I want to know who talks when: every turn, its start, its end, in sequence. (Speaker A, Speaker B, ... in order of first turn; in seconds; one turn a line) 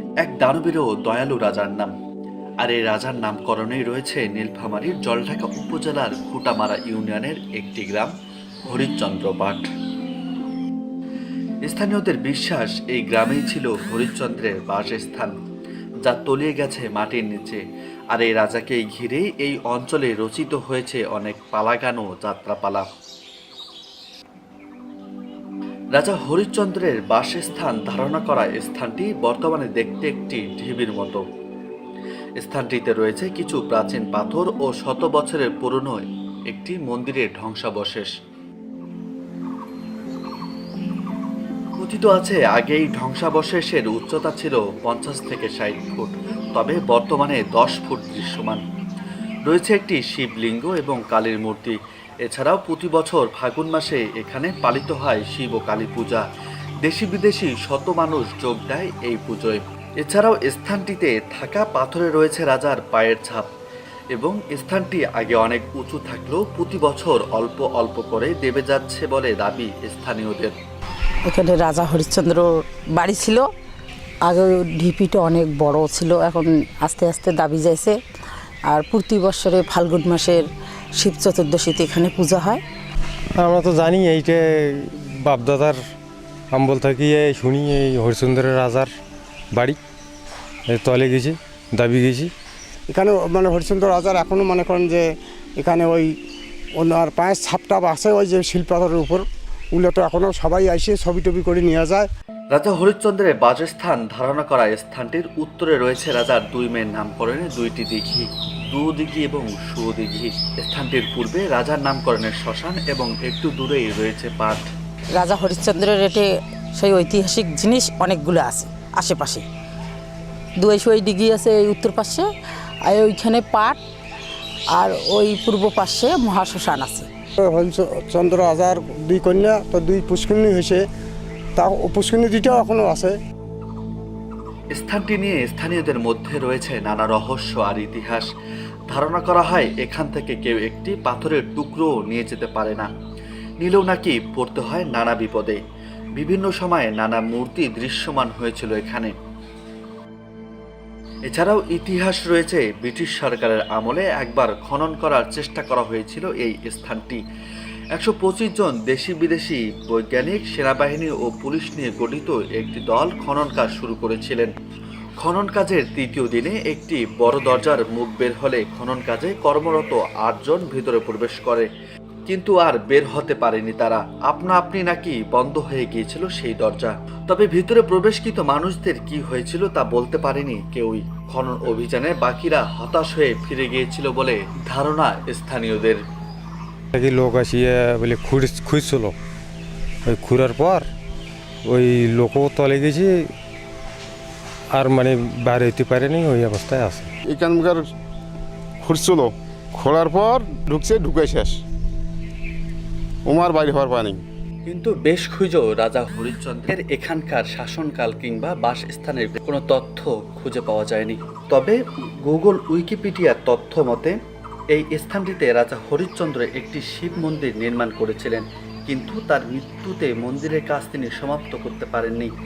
Speaker A: 0.2-1.9
Speaker A: 2.6-8.1
Speaker A: 8.7-9.7
Speaker A: 11.6-15.3
Speaker A: 16.0-22.9
Speaker A: 25.9-31.2
Speaker A: 32.4-38.1
Speaker A: 41.8-48.6
Speaker A: 49.5-56.2
Speaker A: 56.8-63.5
Speaker A: 64.1-70.6
Speaker B: 71.2-73.5
Speaker B: 74.2-78.0
Speaker B: 78.7-80.5
Speaker B: 81.0-82.6
Speaker C: 83.4-85.8
Speaker C: 86.5-88.9
Speaker C: 89.5-89.8
Speaker C: 90.7-92.3
Speaker D: 92.9-95.1
Speaker D: 95.6-96.1
Speaker D: 96.8-102.1
Speaker A: 102.5-114.7
Speaker B: 115.2-119.4
Speaker B: 120.6-122.3
Speaker B: 122.8-123.8
Speaker B: 124.7-127.1
Speaker D: 127.4-130.8
Speaker D: 131.6-133.2
Speaker A: 134.7-138.3
Speaker A: 138.9-142.9
Speaker A: 143.6-145.6
Speaker A: 146.2-149.1
Speaker A: 151.3-157.2
Speaker A: 157.9-164.5
Speaker A: 165.2-171.7
Speaker A: 172.3-186.0
Speaker C: 186.9-189.1
Speaker C: 190.0-190.9
Speaker C: 191.6-193.2
Speaker C: 194.7-197.1
Speaker E: 197.3-197.8
Speaker E: 198.8-201.6
Speaker E: 203.2-204.2
Speaker A: 204.7-214.2
Speaker A: 214.7-222.3